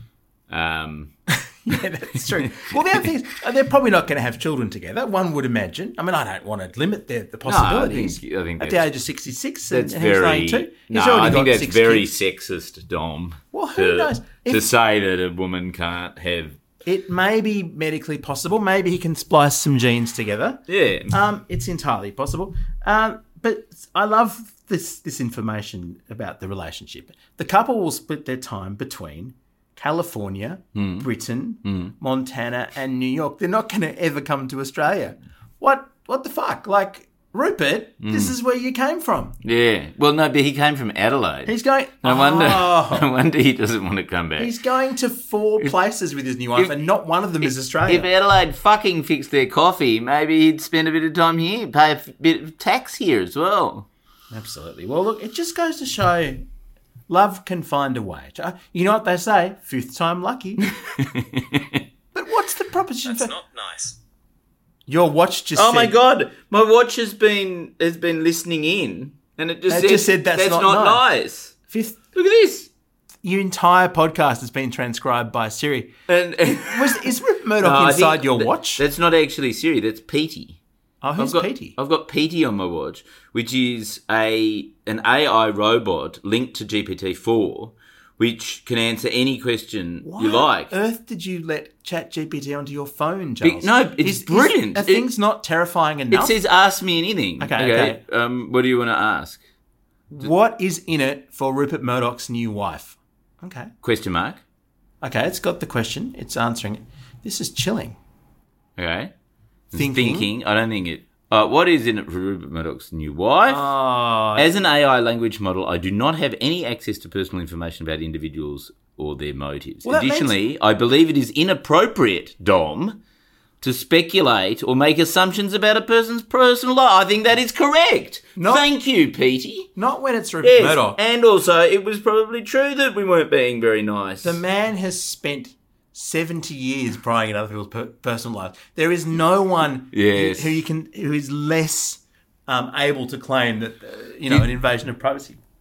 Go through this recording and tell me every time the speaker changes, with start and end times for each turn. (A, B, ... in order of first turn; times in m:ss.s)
0:00.5-0:01.2 A
0:01.3-0:12.1 B
0:02.4-0:03.0 A
0:07.4-0:08.9 A
0:09.7-0:16.6 A
0:13.5-0:14.6 B
0:16.8-0:39.4 B
0:20.7-0:21.1 A
0:30.7-0:31.1 A
0:31.6-0:31.9 A
0:38.0-0:38.3 A
0:39.4-0:44.5 A
0:41.4-0:43.1 B
0:44.4-0:48.1 B
0:47.4-0:53.9 A
0:54.3-0:56.4 B
0:57.1-1:00.7 B
1:00.7-1:01.8 A
1:02.1-1:03.3 B
1:03.1-1:03.9 A
1:04.9-1:06.0 B
1:05.6-1:11.6 A
1:09.7-1:11.1 B
1:11.7-1:12.0 B
1:12.1-1:12.7 A
1:13.2-1:15.9 B
1:16.1-1:17.1 A
1:16.7-1:18.8 B
1:17.6-1:20.6 A
1:21.0-1:21.8 B
1:21.2-1:30.7 A
1:30.0-1:36.3 B
1:33.4-1:35.1 A
1:36.1-1:39.4 A
1:37.4-1:38.0 B
1:40.1-1:43.7 B
1:43.8-1:44.4 A
1:45.0-1:48.0 B
1:48.8-1:49.1 A
1:49.7-1:53.7 A
1:49.7-1:50.3 B
1:53.5-1:54.5 B
1:54.4-2:03.0 A
1:59.8-2:00.4 B
2:03.6-2:09.7 A
2:08.4-2:08.6 B
2:09.8-2:11.0 B
2:10.4-2:14.4 A
2:14.2-2:25.4 B
2:19.9-2:20.6 A